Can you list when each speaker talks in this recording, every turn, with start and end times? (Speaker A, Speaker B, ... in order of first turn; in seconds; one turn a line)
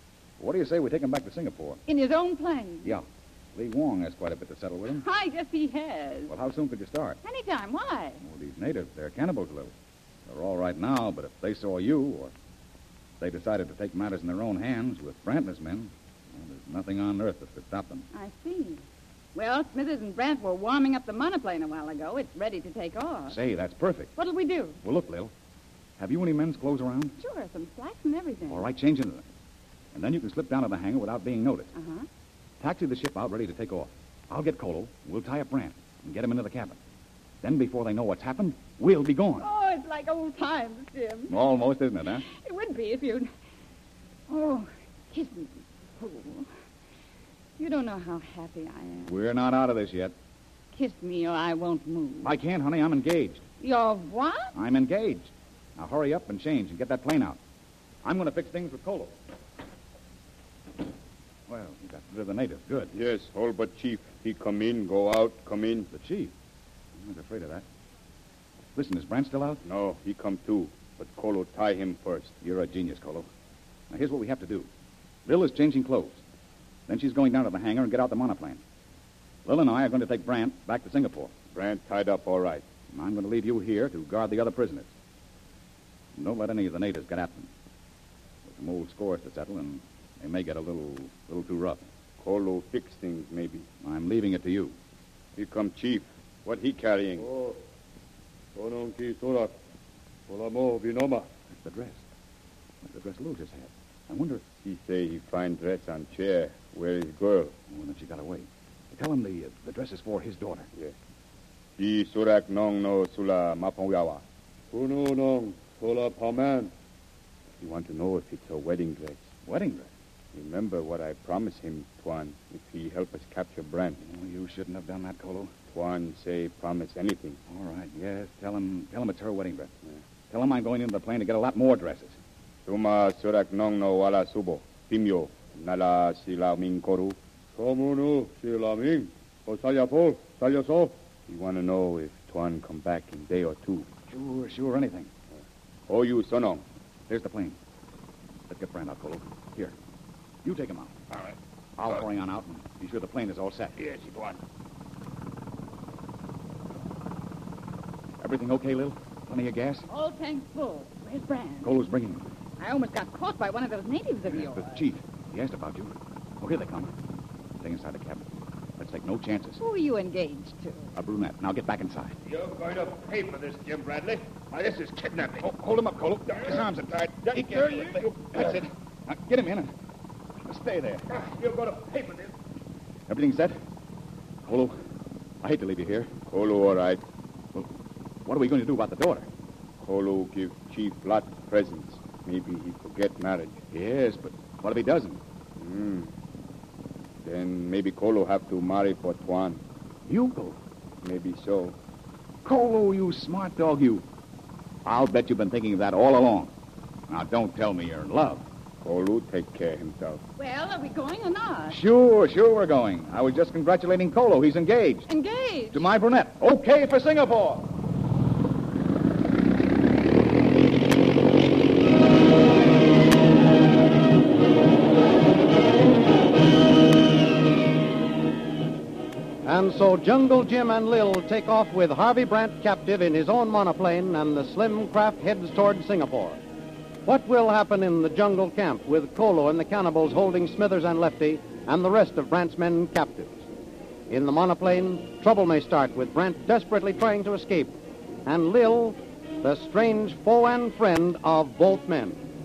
Speaker A: 0.4-1.8
Speaker B: 1.9-2.9
Speaker A: 2.8-5.0
Speaker B: 4.9-6.3
Speaker A: 6.3-7.2
Speaker B: 7.2-8.2
Speaker A: 8.2-9.7
Speaker A: 10.3-12.3
Speaker A: 13.2-18.1
Speaker B: 18.1-18.8
Speaker B: 19.3-23.4
Speaker A: 23.3-24.1
Speaker B: 24.1-24.8
Speaker A: 24.8-25.3
Speaker A: 26.0-27.1
Speaker B: 27.2-28.7
Speaker A: 28.5-29.2
Speaker A: 29.9-31.7
Speaker B: 31.7-32.1
Speaker A: 32.6-36.8
Speaker A: 37.4-39.5
Speaker B: 39.4-41.3
Speaker A: 41.3-42.2
Speaker B: 42.1-43.3
Speaker B: 44.3-46.5
Speaker B: 47.6-49.2
Speaker A: 49.1-50.1
Speaker B: 50.7-52.3
Speaker A: 52.2-53.4
Speaker B: 53.6-54.5
Speaker A: 54.5-57.4
Speaker A: 58.0-59.1
Speaker A: 61.5-62.9
Speaker C: 62.9-65.9
Speaker A: 65.9-66.3
Speaker A: 67.0-67.6
Speaker A: 68.8-69.6
Speaker C: 69.6-72.4
Speaker A: 72.4-73.3
Speaker A: 73.9-74.7
Speaker A: 75.2-76.2
Speaker A: 76.9-78.6
Speaker A: 79.4-81.3
Speaker C: 81.5-82.6
Speaker A: 82.9-84.9
Speaker A: 86.2-87.5
Speaker A: 88.5-91.8
Speaker C: 92.2-93.7
Speaker A: 93.8-94.7
Speaker C: 95.3-97.3
Speaker D: 97.2-97.6
Speaker D: 98.5-99.5
Speaker D: 100.3-101.3
Speaker A: 101.6-102.0
Speaker A: 102.8-104.4
Speaker C: 104.6-107.5
Speaker A: 107.7-110.7
Speaker C: 111.8-114.2
Speaker D: 114.7-116.7
Speaker C: 117.6-119.2
Speaker A: 119.5-119.9
Speaker C: 120.3-124.0
Speaker A: 124.0-125.5
Speaker C: 125.7-127.4
Speaker A: 127.5-129.7
Speaker A: 130.3-132.2
Speaker C: 132.6-137.2
Speaker D: 137.6-140.9
Speaker C: 141.3-143.9
Speaker A: 144.1-145.1
Speaker C: 145.9-146.6
Speaker A: 147.1-147.6
Speaker A: 148.5-149.7
Speaker A: 150.4-150.9
Speaker A: 151.8-153.8
Speaker E: 153.8-154.4
Speaker A: 158.2-159.8
Speaker B: 159.9-161.8
Speaker A: 161.6-162.3
Speaker B: 162.6-164.9
Speaker A: 164.3-166.9
Speaker A: 167.6-168.2
Speaker A: 168.8-169.6
Speaker B: 169.6-170.9
Speaker A: 170.9-172.2
Speaker E: 172.2-175.7
Speaker A: 175.4-179.7
Speaker E: 176.3-178.3
Speaker A: 180.4-181.0
Speaker E: 181.1-182.3
Speaker A: 183.1-183.6
Speaker A: 184.4-184.8
Speaker A: 185.4-186.1
Speaker C: 186.3-187.0
Speaker A: 188.2-189.2
Speaker C: 189.8-193.6
Speaker A: 193.7-195.2
Speaker C: 195.6-196.1
Speaker C: 197.2-199.6
Speaker A: 200.1-200.6
Speaker C: 201.0-201.8
Speaker A: 202.4-204.0
Speaker A: 204.8-206.5
Speaker A: 207.1-208.4
Speaker C: 208.8-210.2
Speaker B: 210.4-211.8
Speaker A: 211.7-215.1
Speaker B: 215.1-215.8
Speaker A: 215.7-217.7
Speaker F: 229.4-236.4
Speaker F: 237.1-243.4
Speaker F: 244.1-252.2